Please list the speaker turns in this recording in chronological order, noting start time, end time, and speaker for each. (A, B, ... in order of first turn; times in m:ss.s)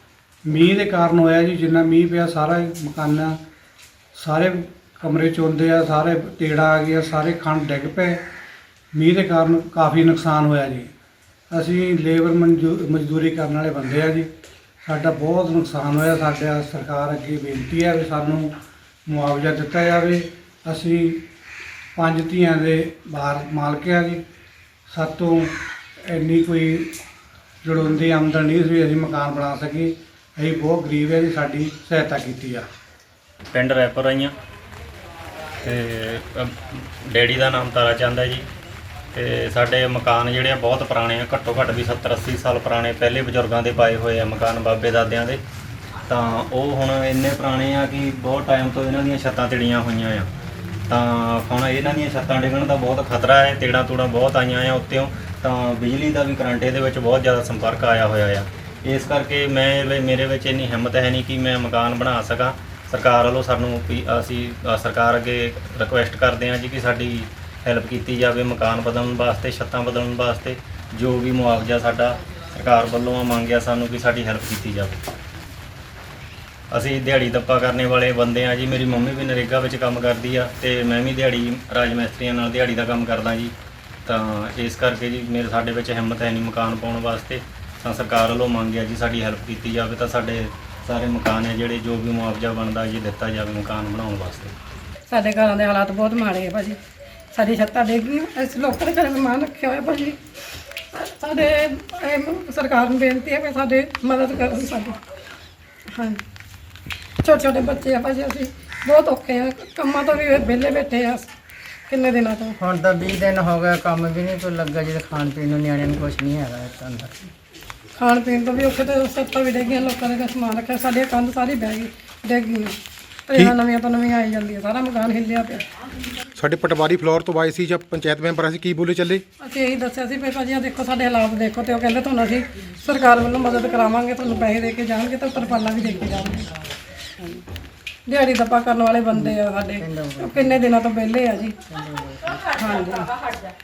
0:00.5-0:03.4 A
0:04.2-0:08.2 A
0:08.9-0:10.9 A
0:11.5-0:14.3 A
0:14.8-0:18.5 A
0:19.1-0:21.2 A
0:22.0-0:24.2 A
0:24.9-0:25.5 A
0:26.1-0:26.9 A
0:27.6-0:32.6 A
0:33.5-0:34.3 B
0:35.6-0:38.5 B
0:39.1-0:45.4 B
0:46.1-0:50.3 B
0:50.9-1:15.0 B
1:16.7-1:23.5 B
1:24.1-1:34.5 B
1:35.1-1:36.8 C
1:37.3-1:40.2 C
1:40.9-1:45.0 C
1:45.9-1:46.2 C
1:47.2-1:51.3 C
1:51.9-1:52.6 C
1:52.6-1:57.3 D
1:58.0-2:05.6 C
2:06.4-2:09.2 E
2:09.4-2:16.5 C
2:18.1-2:21.6 C
2:19.2-2:20.6 D
2:21.6-2:22.5 D
2:22.5-2:23.1 C